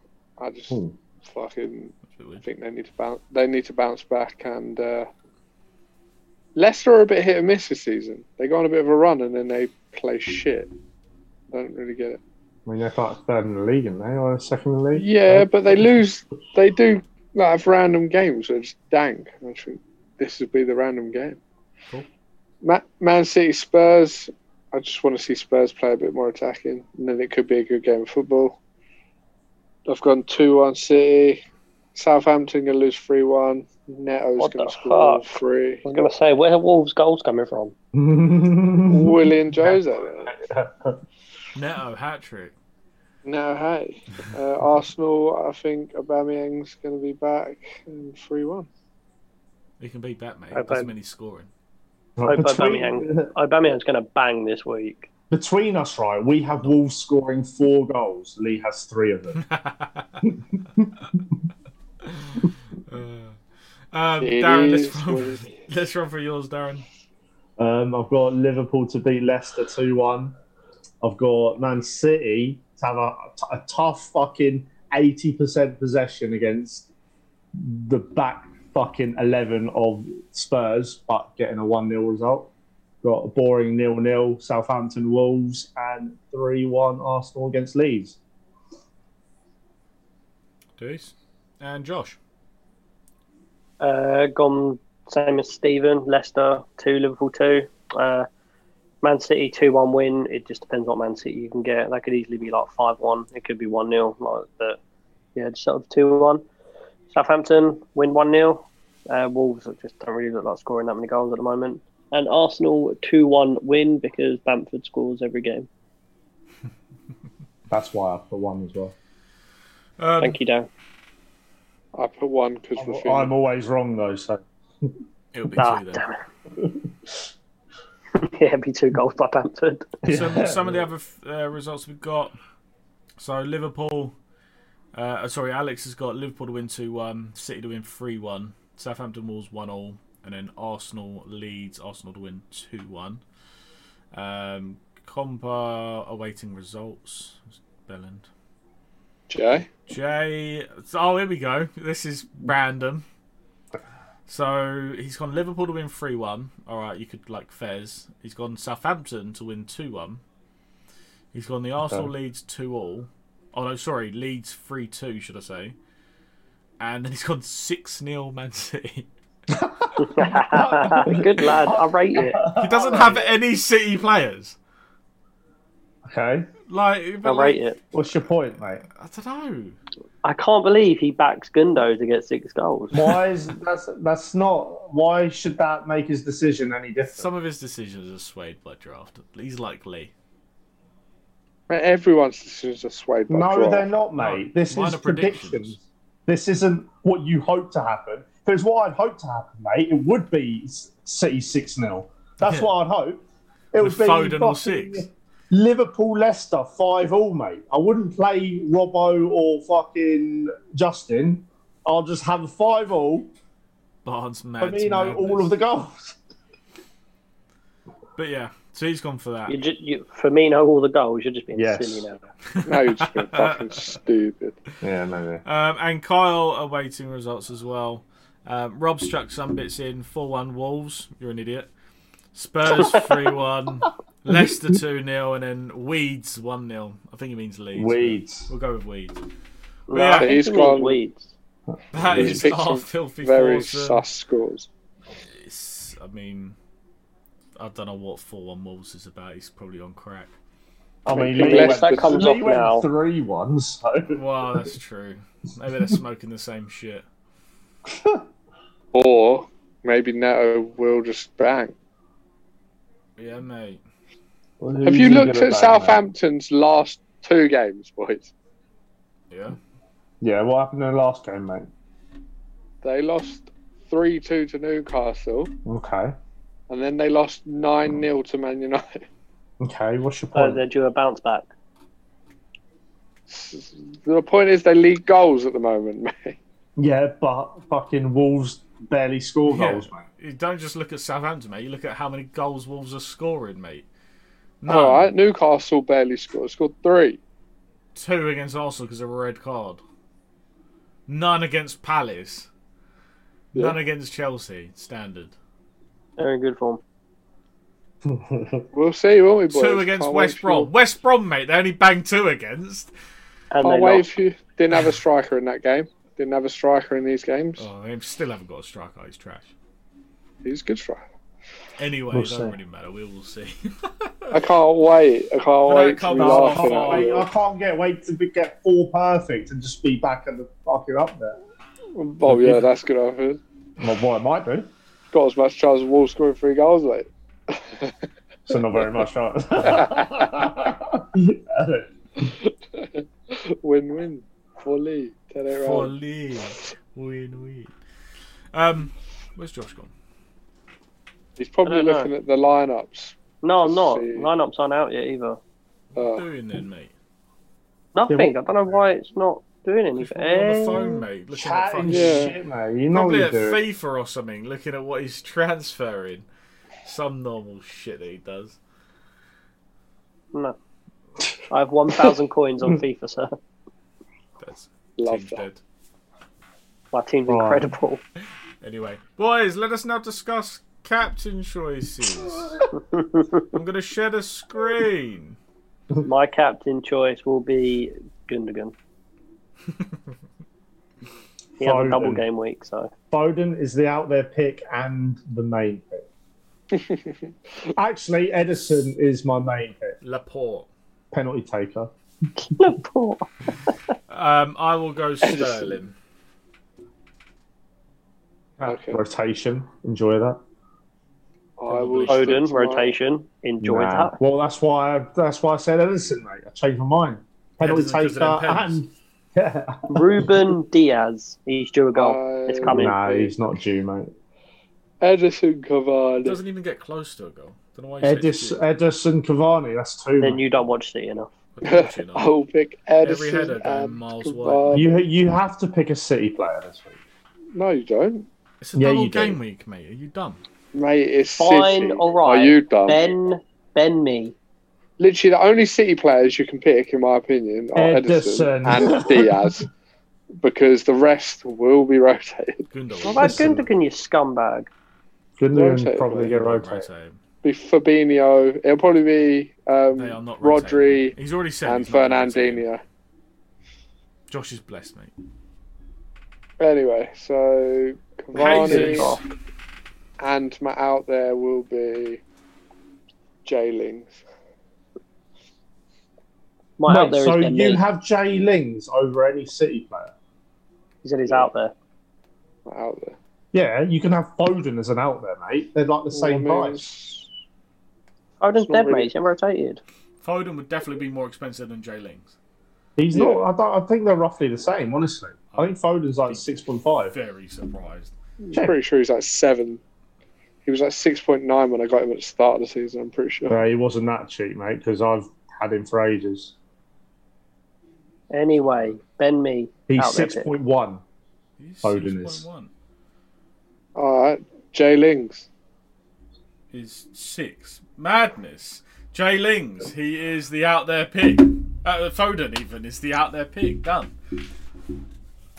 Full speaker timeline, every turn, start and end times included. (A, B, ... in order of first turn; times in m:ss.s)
0:00.4-0:05.1 A
0:02.1-0:02.4 B
0:06.6-0:10.7 A
0:11.5-0:12.2 A
0:12.7-0:15.9 C
0:14.9-0:21.4 A
0:22.6-0:28.6 A
0:29.9-0:31.4 A
0:32.0-0:35.8 A
0:34.4-0:35.2 D
0:35.9-0:37.7 D
0:37.9-0:41.0 C
0:38.9-0:40.3 A
0:41.5-0:42.6 B
0:43.2-0:48.7 A
0:49.8-0:51.5 B
0:50.5-0:50.9 D
0:52.2-0:53.3 C
0:52.2-0:55.1 D
0:55.3-0:59.4 C
0:59.4-1:00.2 B
1:00.2-1:01.2 C
1:02.0-1:03.4 B
1:03.9-1:06.8 B
1:04.2-1:05.5 A
1:07.6-1:10.3 C
1:11.0-1:16.9 C
1:17.6-1:22.5 C
1:23.0-1:28.2 C
1:30.8-1:32.2 B
1:33.8-1:38.3 D
1:39.0-1:44.8 D
1:45.4-1:46.4 D
1:47.1-1:55.7 D
1:57.7-1:58.9 C
2:00.0-2:00.4 B
2:00.2-2:00.7 D
2:02.0-2:03.3 A
2:02.8-2:04.9 C
2:05.3-2:06.0 B
2:05.6-2:06.2 D
2:08.2-2:10.0 D
2:10.0-2:10.8 C
2:10.1-2:12.4 B
2:13.2-2:14.1 B
2:14.9-2:23.2 B
2:24.1-2:28.3 B
2:29.3-2:29.7 A
2:29.9-2:33.0 B
2:34.3-2:40.2 B
2:41.3-2:45.8 B
2:41.8-2:42.1 C
2:46.8-2:49.1 B
2:49.5-2:53.3 C
2:50.0-2:52.4 D
2:52.5-2:54.6 B
2:56.1-2:56.5 C
2:56.7-2:57.7 B
2:57.2-2:57.8 D
2:57.9-2:58.8 C
2:58.9-2:59.8 B
3:00.2-3:03.2 D
3:02.9-3:07.3 C
3:07.0-3:10.1 B
3:11.7-3:13.9 A
3:13.3-3:33.3 C
3:14.2-3:15.8 B
3:22.4-3:22.7 B
3:23.8-3:25.1 B
3:34.0-3:35.5 B
3:34.6-3:36.2 C
3:38.2-3:39.6 B
3:39.5-3:42.2 D
3:41.6-3:42.1 C
3:42.5-3:44.0 B
3:42.6-3:44.6 A
3:44.8-3:45.4 C
3:45.4-3:51.7 B
3:52.3-3:59.2 B
3:57.7-3:58.5 C
3:59.9-4:01.3 D
3:59.9-4:00.4 B
3:59.9-4:01.0 A
4:01.7-4:02.5 C
4:01.9-4:04.0 B
4:02.1-4:04.7 A
4:05.2-4:06.6 B
4:07.6-4:10.3 B
4:11.0-4:14.2 C
4:11.1-4:12.9 D
4:11.2-4:12.3 A
4:14.1-4:17.0 B
4:17.9-4:18.2 C
4:18.9-4:21.7 A
4:23.2-4:23.8 B
4:24.6-4:26.0 C
4:24.8-4:28.3 A
4:29.3-4:29.6 B
4:30.2-4:31.7 C
4:32.8-4:35.5 A
4:35.6-4:36.2 C
4:36.7-4:39.0 A
4:39.6-4:40.6 C
4:40.3-4:41.5 D
4:43.3-4:46.4 A
4:46.8-4:50.1 C
4:49.5-4:53.9 B
4:54.6-4:55.1 B
4:54.7-4:57.2 A
4:58.0-4:59.8 B
5:01.1-5:02.5 B
5:03.5-5:05.3 B
5:06.2-5:06.8 D
5:08.0-5:08.7 C
5:08.7-5:10.7 A
5:09.5-5:12.9 B
5:13.5-5:14.1 D
5:13.6-5:17.7 A
5:17.6-5:19.5 B
5:20.4-5:21.0 A
5:21.8-5:24.4 B
5:22.1-5:22.6 C
5:24.3-5:27.3 A
5:25.6-5:27.3 B
5:26.2-5:31.4 C
5:32.0-5:33.4 A
5:32.3-5:32.6 C
5:33.8-5:34.7 C
5:35.1-5:38.0 A
5:38.5-5:41.9 C
5:39.6-5:40.5 A
5:42.2-5:45.9 A
5:45.6-5:47.8 B
5:48.5-5:49.9 B
5:51.4-5:54.3 A
5:51.6-5:52.1 D
5:53.4-5:55.4 D
5:55.9-5:56.9 B
5:56.0-5:56.2 A
5:58.0-6:01.0 D
5:58.1-5:58.8 C
6:00.0-6:02.4 B
6:01.3-6:03.6 C
6:01.9-6:02.3 A
6:02.9-6:06.2 B
6:06.8-6:08.6 B
6:11.5-6:13.4 D
6:14.4-6:15.6 B
6:15.0-6:15.4 A
6:16.9-6:18.0 D
6:17.3-6:17.8 C
6:18.6-6:22.6 B
6:22.9-6:23.2 D
6:23.5-6:25.4 B
6:26.0-6:28.7 D
6:31.6-6:32.9 D
6:31.6-6:32.2 C
6:33.1-6:36.1 C
6:36.7-6:37.3 A
6:37.8-6:40.0 C
6:40.0-6:40.7 B
6:41.1-6:41.9 C
6:42.4-6:43.8 D
6:44.1-6:45.9 B
6:45.2-6:45.8 A
6:48.6-6:50.4 C
6:48.6-6:49.0 A
6:51.6-6:53.0 A
6:51.7-6:52.4 B
6:52.1-6:54.2 D
6:53.6-7:00.5 C
6:57.6-6:58.8 B
6:59.9-7:03.0 D
7:02.0-7:03.3 A
7:02.7-7:04.1 C
7:05.0-7:06.4 A
7:06.2-7:08.6 B
7:08.0-7:10.4 C
7:10.2-7:11.3 D
7:11.6-7:12.3 B
7:11.6-7:14.9 A
7:13.0-7:14.9 B
7:14.7-7:17.0 C
7:17.5-7:18.3 A
7:18.6-7:20.4 B
7:18.8-7:19.4 C
7:20.7-7:23.1 A
7:21.4-7:24.3 D
7:25.0-7:29.7 A
7:27.8-7:29.6 C
7:30.4-7:32.6 A
7:32.7-7:33.5 B
7:33.0-7:34.7 D
7:33.2-7:33.7 C
7:35.4-7:36.9 C
7:35.5-7:36.3 A
7:36.2-7:37.2 B
7:37.4-7:42.8 A
7:39.9-7:42.7 B
7:44.3-7:45.1 B
7:46.6-7:49.2 A
7:48.3-7:49.2 B
7:48.5-7:49.2 D
7:50.2-7:52.2 A
7:53.4-7:54.2 A
7:56.8-7:57.8 D
7:56.9-8:00.1 C
8:01.0-8:01.7 D
8:01.3-8:01.5 A
8:02.7-8:03.2 A
8:03.5-8:06.8 C
8:06.1-8:07.3 A
8:08.4-8:09.8 D
8:08.6-8:09.1 A
8:10.2-8:12.4 B
8:13.0-8:17.1 C
8:13.1-8:13.4 A
8:15.5-8:16.5 B
8:17.1-8:18.1 B
8:18.4-8:19.8 A
8:20.6-8:23.6 A
8:23.5-8:26.5 C
8:28.3-8:30.5 D
8:28.6-8:29.0 B
8:29.9-8:31.0 C
8:31.6-8:32.7 B
8:31.8-8:32.4 C
8:34.0-8:35.5 A
8:36.7-8:44.1 B